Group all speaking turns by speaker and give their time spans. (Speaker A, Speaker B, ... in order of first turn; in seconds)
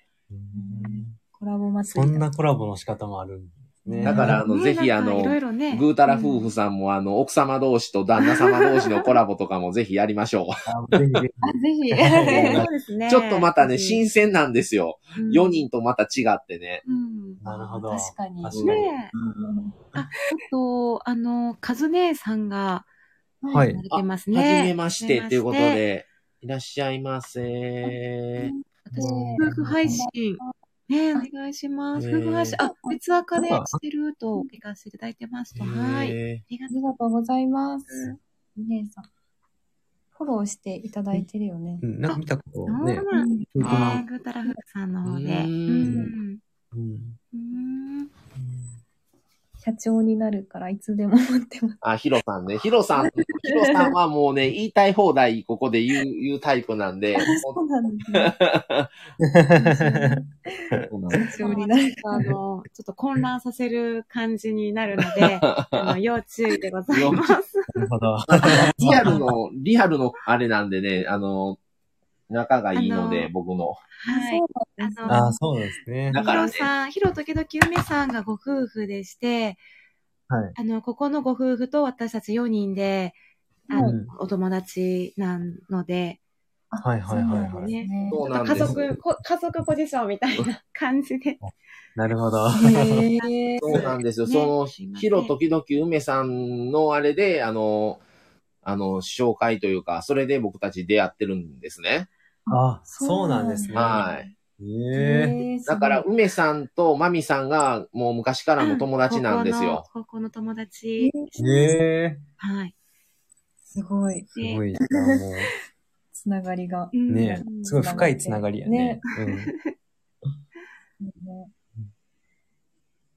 Speaker A: 0.3-1.2, 1.9-4.4, 10.7-12.7, 17.4-19.2, 23.5-23.8, 28.9-30.0, 33.3-33.8, 41.8-44.0, 46.7-47.2, 48.4-48.7, 59.2-60.9, 67.8-69.2, 75.1-76.2, 80.3-80.5, 83.8-84.1, 86.8-87.8, 91.4-93.1, 102.5-104.0, 104.6-105.4, 111.4-112.2, 114.3-115.5, 117.1-119.5
Speaker B: 0.5-2.2, 3.9-4.4, 11.4-12.6, 15.2-15.4, 17.3-18.6, 19.1-19.8, 23.4-23.7, 28.9-30.5, 32.6-33.0, 36.7-39.0, 40.1-41.8, 43.1-43.5, 49.6-51.8, 53.0-53.9, 57.2-58.3, 59.6-62.3, 68.8-69.2, 74.1-75.5, 76.2-76.5, 83.7-84.0, 86.7-88.2, 92.5-93.8, 102.5-104.0, 104.9-106.1, 111.0-111.8, 113.7-114.3, 115.0-115.5, 116.1-119.0, 121.0-121.5
Speaker C: 4.0-10.5, 13.1-16.8, 18.5-18.9, 23.9-28.5, 31.9-32.6, 35.6-36.4, 43.6-44.0, 45.0-46.0, 51.8-57.6, 58.1-58.9, 60.9-61.3, 65.3-65.9, 66.9-67.3, 68.3-71.6, 72.3-73.8, 76.1-76.7, 88.1-88.9, 93.6-98.0, 98.6-102.1, 103.7-104.3, 105.7-109.8
Speaker D: 4.2-6.5, 12.3-14.0, 15.2-15.5, 16.9-17.4, 18.6-19.1, 19.9-22.9, 23.6-25.8, 28.9-36.7, 42.1-46.4, 47.3-48.1, 61.4-67.7, 72.7-73.3, 74.0-75.2, 76.1-79.6, 80.5-83.2, 83.7-86.2, 87.2-91.4, 93.2-95.3, 104.0-104.3, 108.6-111.1, 112.4-112.7, 114.3-114.6, 116.9-118.1, 119.3-119.7